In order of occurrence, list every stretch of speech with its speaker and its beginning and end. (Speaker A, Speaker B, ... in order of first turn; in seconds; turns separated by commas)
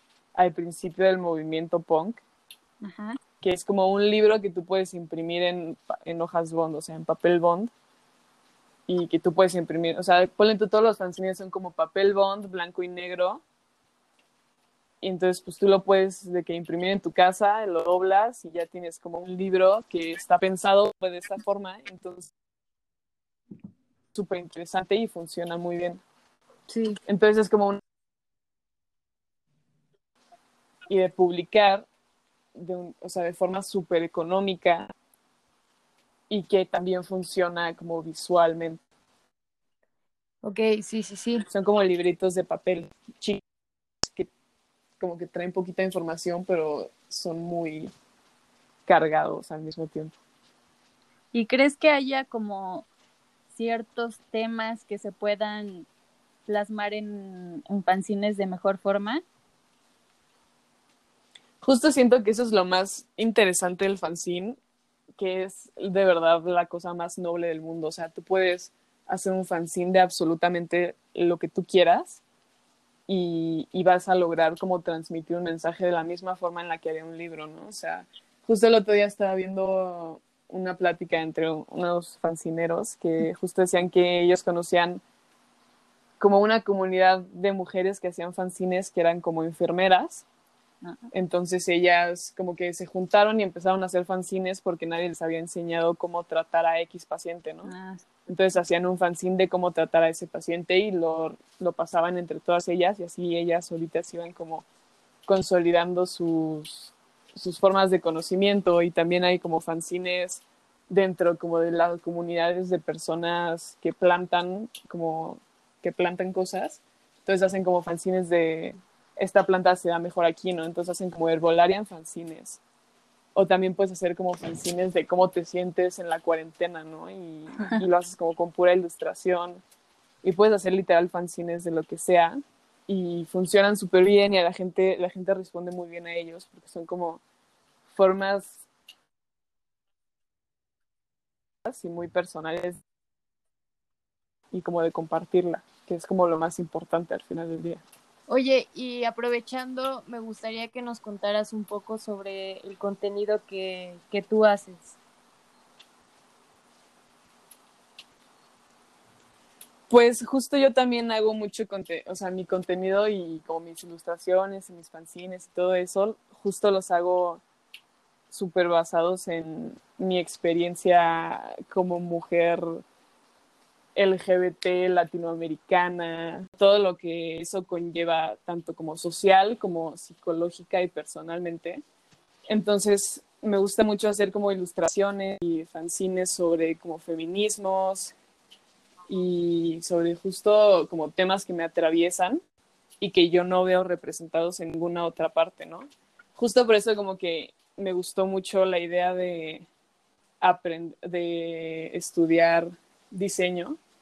Speaker A: 0.3-2.2, Speaker B: 2.8-3.2, Speaker A: 3.4-7.7, Speaker A: 8.9-13.4, Speaker A: 15.0-22.3, Speaker A: 24.1-26.0, Speaker C: 26.7-27.0, Speaker A: 27.1-27.8, Speaker A: 30.9-31.9, Speaker A: 32.5-34.9, Speaker A: 36.3-38.8, Speaker C: 40.4-41.4, Speaker A: 41.5-43.4, Speaker A: 44.0-44.3, Speaker A: 45.0-47.9, Speaker A: 48.9-50.1, Speaker B: 51.3-52.9, Speaker B: 53.5-55.9, Speaker B: 56.5-59.2, Speaker A: 61.6-64.6, Speaker A: 65.2-72.2, Speaker A: 73.1-85.0, Speaker A: 86.2-90.2, Speaker A: 91.1-97.7, Speaker B: 97.7-98.0, Speaker A: 98.3-104.7, Speaker A: 105.3-122.6, Speaker A: 123.3-129.6, Speaker A: 130.2-137.2, Speaker A: 137.9-138.6, Speaker A: 141.6-142.8, Speaker A: 144.5-147.8, Speaker C: 148.3-154.9, Speaker A: 159.9-167.4, Speaker A: 168.3-172.8, Speaker A: 173.9-181.8, Speaker A: 182.5-188.1, Speaker A: 189.1-192.4, Speaker A: 193.0-199.7, Speaker A: 200.4-203.8